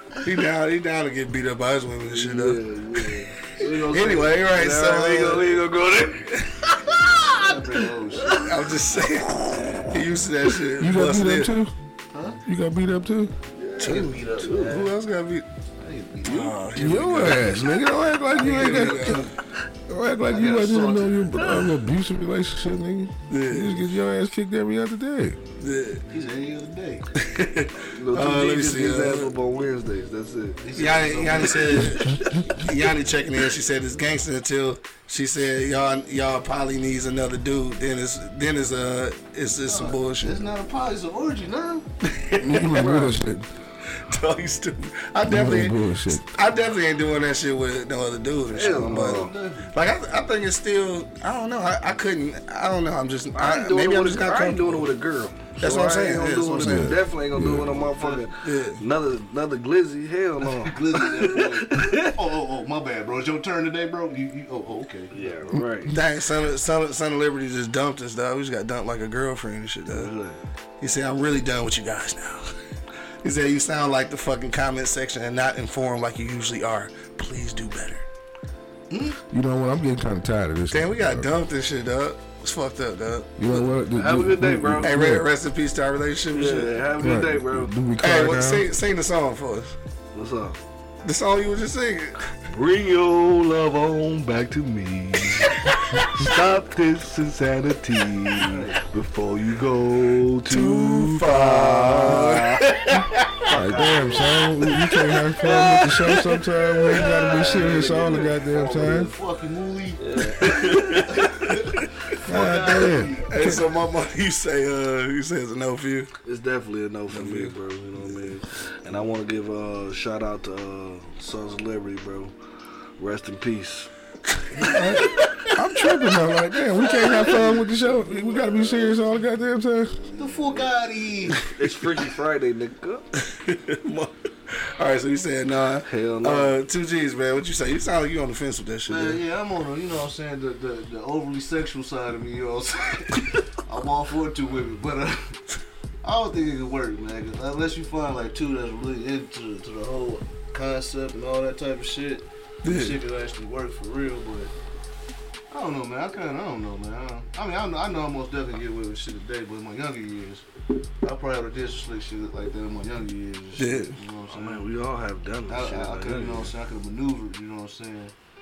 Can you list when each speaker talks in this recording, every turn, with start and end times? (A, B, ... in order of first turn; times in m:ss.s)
0:00.2-0:05.6 A
0:02.1-0:07.6 B
0:03.6-0:04.4 C
0:07.3-0:08.6 C
0:08.2-0:08.5 B
0:08.3-0:11.5 A
0:09.4-0:09.9 B
0:10.8-0:11.7 D
0:12.1-0:12.4 C
0:12.5-0:13.3 D
0:13.6-0:14.6 B
0:13.8-0:14.9 C
0:13.8-0:15.5 A
0:15.8-0:16.6 C
0:16.2-0:17.7 A
0:16.8-0:19.3 D
0:18.3-0:19.2 C
0:18.3-0:19.3 A
0:19.9-0:25.4 D
0:20.3-0:21.6 C
0:23.3-0:23.8 A
0:25.6-0:26.0 A
0:26.1-0:27.1 C
0:27.2-0:29.3 A
0:27.9-0:32.3 B
0:30.6-0:32.2 C
0:30.8-0:40.4 A
0:39.7-0:41.9 C
0:42.0-0:43.1 A
0:42.4-0:43.5 D
0:42.8-0:43.2 B
0:43.9-0:54.9 A
0:45.2-0:46.3 D
0:48.5-0:49.3 B
0:48.6-0:49.8 C
0:53.4-1:02.2 B
0:55.6-0:57.0 A
0:56.6-0:57.7 D
0:57.7-0:58.3 C
0:58.4-0:58.8 A
1:00.4-1:05.4 C
1:05.1-1:06.0 B
1:05.5-1:06.0 D
1:05.9-1:10.1 A
1:09.9-1:10.4 B
1:10.8-1:12.5 A
1:13.2-1:18.0 A
1:18.9-1:19.2 C
1:19.3-1:21.3 D
1:20.7-1:23.7 A
1:23.4-1:25.3 D
1:23.9-1:24.9 B
1:24.8-1:26.8 A
1:26.3-1:27.7 B
1:27.0-1:28.7 D
1:28.0-1:29.8 A
1:30.1-1:30.6 B
1:31.0-1:32.2 A
1:32.5-1:49.1 B
1:35.4-1:36.0 A
1:38.3-1:38.9 C
1:40.5-1:43.4 A
1:43.5-1:49.1 D
1:47.2-1:53.3 C
1:50.0-1:51.3 B
1:50.4-1:51.8 A
1:52.3-1:53.6 D
1:53.3-1:56.1 A
1:56.2-2:02.3 B
1:57.1-1:57.5 A
2:03.0-2:03.9 B
2:04.5-2:05.5 A
2:05.5-2:10.0 D
2:10.2-2:11.5 C
2:10.4-2:10.7 B
2:11.3-2:13.0 B
2:13.2-2:19.2 A
2:15.9-2:16.5 B
2:18.9-2:25.4 C
2:26.0-2:34.5 C
2:32.6-2:33.0 A
2:35.5-2:40.4 C
2:41.0-2:44.7 C
2:43.6-2:44.0 A
2:44.3-2:46.5 B
2:45.5-2:48.1 C